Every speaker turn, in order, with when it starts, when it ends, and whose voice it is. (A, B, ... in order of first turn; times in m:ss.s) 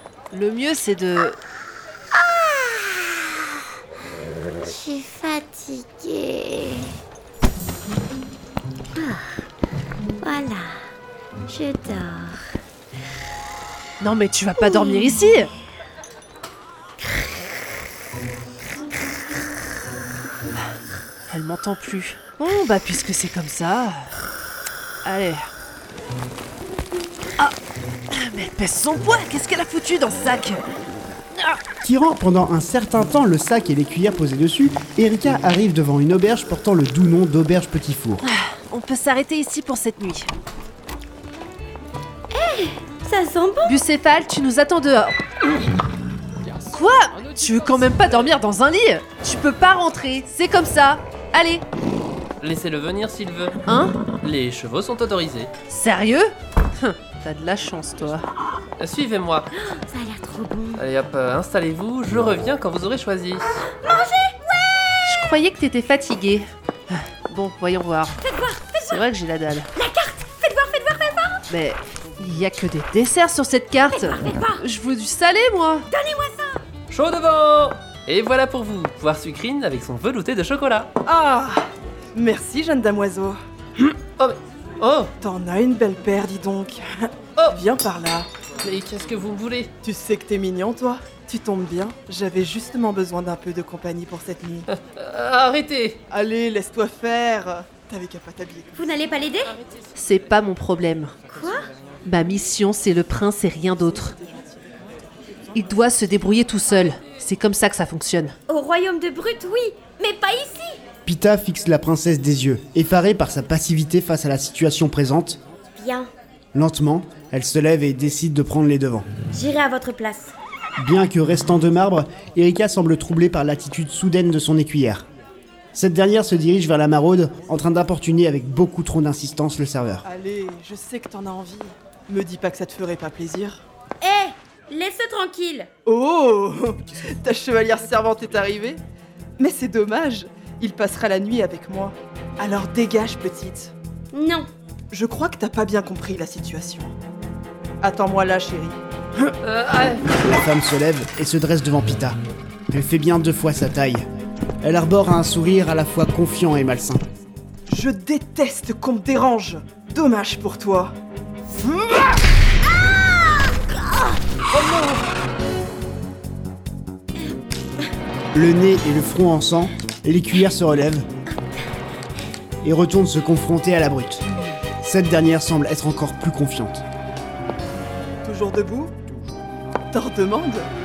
0:00.3-0:01.4 A
0:02.4-0:03.3 B
0:04.6-0:06.8 B
0:08.9-0:09.2 B
0:10.2-0:10.7 B
0:11.5-0:12.4 B
0:14.0-0:15.5 A
0:14.6-0:15.2 B
0:21.3-0:24.0 A
0:25.0-0:25.4 A
0:28.1-0:30.6 A
0:31.8-0:38.2 C
0:38.2-0:40.3 A
0:42.3-0:43.8 B
0:43.6-0:45.1 A
0:46.7-0:51.6 A
0:52.4-0:53.6 D
0:53.6-0:53.9 A
0:54.2-0:55.5 D
0:55.7-0:58.2 A
0:58.8-0:59.5 D
0:59.6-1:00.8 B
1:00.8-1:03.6 D
1:03.7-1:05.1 B
1:05.0-1:08.1 A
1:08.2-1:09.0 B
1:08.8-1:09.7 A
1:09.7-1:11.4 B
1:11.5-1:15.8 A
1:13.9-1:14.6 B
1:15.9-1:16.6 B
1:16.9-1:20.9 D
1:21.0-1:23.4 E
1:24.0-1:25.1 D
1:25.2-1:26.9 E
1:27.5-1:28.3 E
1:28.6-1:29.7 D
1:29.8-1:34.6 E
1:34.7-1:36.0 D
1:36.1-1:38.9 E
1:38.7-1:39.6 B
1:39.9-1:41.2 A
1:41.3-1:41.7 B
1:42.0-1:44.1 A
1:43.8-1:46.0 E
1:45.5-1:48.3 A
1:48.5-1:50.8 B
1:51.0-1:55.4 C
1:55.7-1:56.1 B
1:56.5-1:59.1 C
1:59.3-2:00.3 B
2:00.8-2:05.1 C
2:05.7-2:10.0 C
2:10.0-2:13.6 E
2:14.0-2:15.7 B
2:15.8-2:18.8 E
2:19.4-2:23.7 E
2:24.1-2:24.5 B
2:24.9-2:26.9 E
2:27.8-2:28.8 E
2:29.4-2:30.1 D
2:30.2-2:32.2 C
2:32.7-2:34.0 C
2:34.6-2:37.0 C
2:37.7-2:40.9 E
2:48.3-2:51.0 C
2:52.6-2:54.2 C
2:54.8-2:56.8 C
2:58.2-2:58.9 E
2:59.9-3:00.7 E